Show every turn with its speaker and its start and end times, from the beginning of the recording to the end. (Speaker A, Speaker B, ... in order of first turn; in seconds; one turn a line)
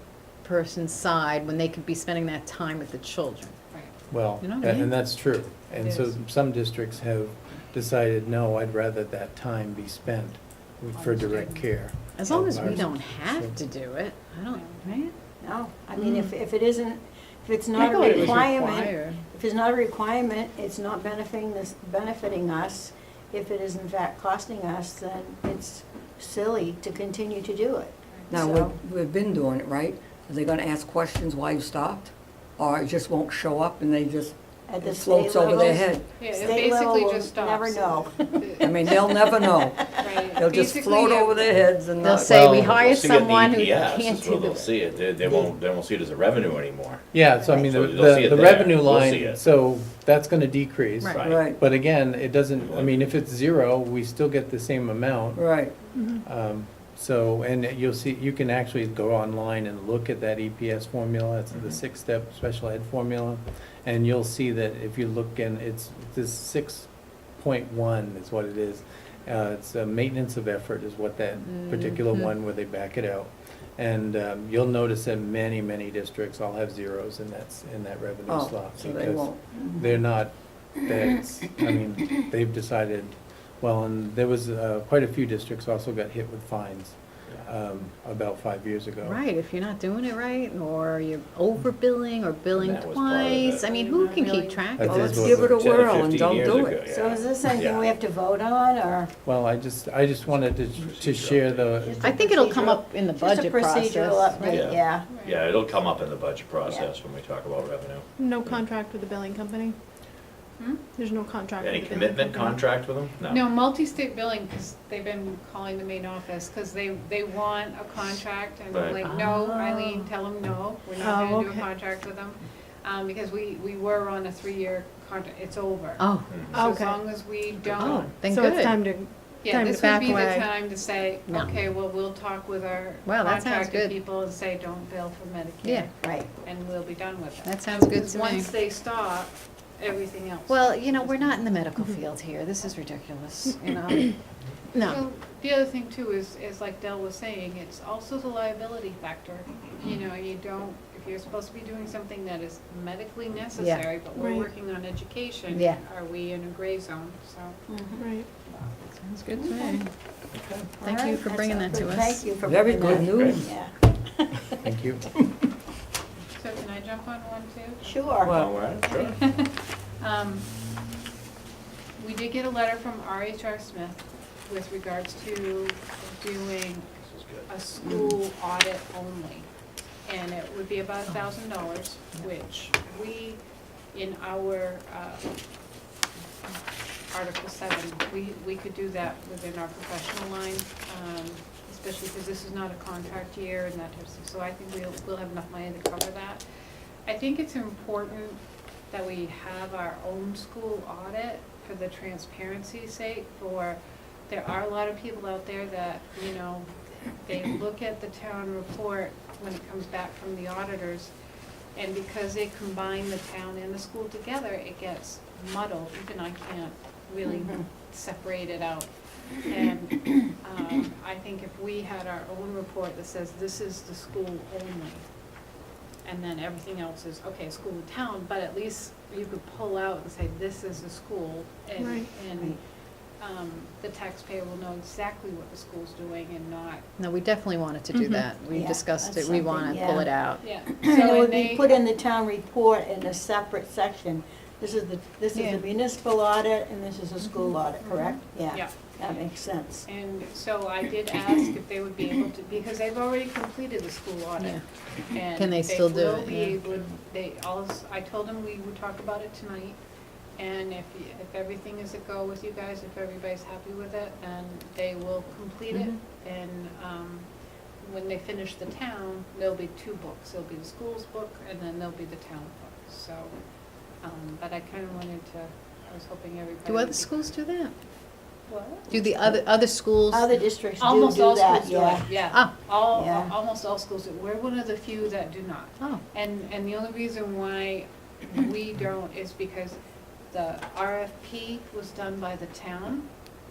Speaker A: 0.4-3.5
Speaker B: 4.1-13.6
Speaker A: 4.4-4.9
Speaker C: 5.8-6.2
Speaker C: 10.9-11.7
Speaker A: 12.2-15.1
Speaker C: 14.5-14.9
Speaker D: 15.4-28.8
Speaker A: 16.0-16.3
Speaker E: 17.8-18.9
Speaker A: 17.9-18.9
Speaker F: 28.3-36.1
Speaker D: 34.7-40.0
Speaker C: 36.2-38.9
Speaker F: 38.6-42.8
Speaker C: 40.0-41.5
Speaker A: 42.0-44.8
Speaker G: 42.3-49.4
Speaker B: 47.1-55.6
Speaker G: 51.1-51.5
Speaker F: 51.2-51.6
Speaker G: 52.6-53.1
Speaker F: 55.3-55.7
Speaker E: 55.9-56.2
Speaker B: 56.2-89.2
Speaker A: 71.5-72.2
Speaker F: 78.3-79.4
Speaker D: 79.5-79.9
Speaker A: 89.0-95.4
Speaker G: 92.5-93.7
Speaker C: 93.6-94.6
Speaker B: 94.8-95.5
Speaker F: 94.8-96.9
Speaker G: 95.4-97.9
Speaker D: 96.9-99.1
Speaker B: 99.2-102.1
Speaker G: 100.3-102.0
Speaker D: 101.8-105.1
Speaker A: 102.0-105.0
Speaker G: 104.4-108.0
Speaker C: 105.1-105.5
Speaker E: 108.2-109.8
Speaker E: 111.0-112.7
Speaker G: 111.6-113.4
Speaker C: 113.3-128.1
Speaker G: 118.7-119.0
Speaker A: 119.0-120.1
Speaker E: 121.0-121.6
Speaker A: 126.0-126.4
Speaker G: 126.3-126.6
Speaker E: 126.5-127.4
Speaker A: 127.8-128.8
Speaker G: 127.8-128.2
Speaker E: 128.2-130.4
Speaker C: 129.4-141.4
Speaker A: 129.5-130.7
Speaker A: 131.3-131.6
Speaker A: 133.1-134.0
Speaker A: 135.6-135.9
Speaker D: 136.0-136.3
Speaker A: 137.4-138.5
Speaker A: 140.5-144.2
Speaker A: 144.7-145.0
Speaker C: 144.8-157.6
Speaker A: 153.6-153.9
Speaker E: 154.1-154.5
Speaker A: 155.5-155.8
Speaker D: 157.7-158.0
Speaker E: 158.0-158.3
Speaker A: 158.9-159.9
Speaker D: 159.3-159.8
Speaker G: 160.3-160.8
Speaker D: 160.8-164.6
Speaker A: 160.8-162.3
Speaker F: 162.4-163.5
Speaker G: 163.1-163.4
Speaker B: 164.6-165.1
Speaker C: 166.4-167.9
Speaker D: 167.8-168.3
Speaker F: 168.2-168.6
Speaker G: 168.2-169.2
Speaker C: 168.8-170.4
Speaker C: 172.0-176.9
Speaker G: 177.0-177.5
Speaker C: 177.5-179.5
Speaker D: 177.8-178.1
Speaker C: 180.1-183.4
Speaker C: 183.9-185.2
Speaker C: 187.1-196.4
Speaker C: 197.1-198.4
Speaker C: 198.9-206.7
Speaker C: 207.2-211.1
Speaker C: 211.8-218.9
Speaker D: 217.2-217.6
Speaker C: 219.4-225.0
Speaker C: 226.0-232.6
Speaker E: 231.8-232.1
Speaker C: 233.2-236.8
Speaker A: 237.0-240.4
Speaker D: 238.5-249.8
Speaker C: 240.4-241.8
Speaker A: 245.3-245.6
Speaker C: 247.8-248.8
Speaker C: 249.8-259.8
Speaker A: 255.3-256.6
Speaker C: 260.4-267.3
Speaker A: 265.7-266.0
Speaker C: 267.8-273.3
Speaker C: 274.0-277.2
Speaker A: 276.7-277.7
Speaker C: 278.5-278.9
Speaker A: 278.9-280.3
Speaker D: 280.1-282.1
Speaker C: 280.8-289.8
Speaker D: 282.9-283.3
Speaker C: 290.3-293.1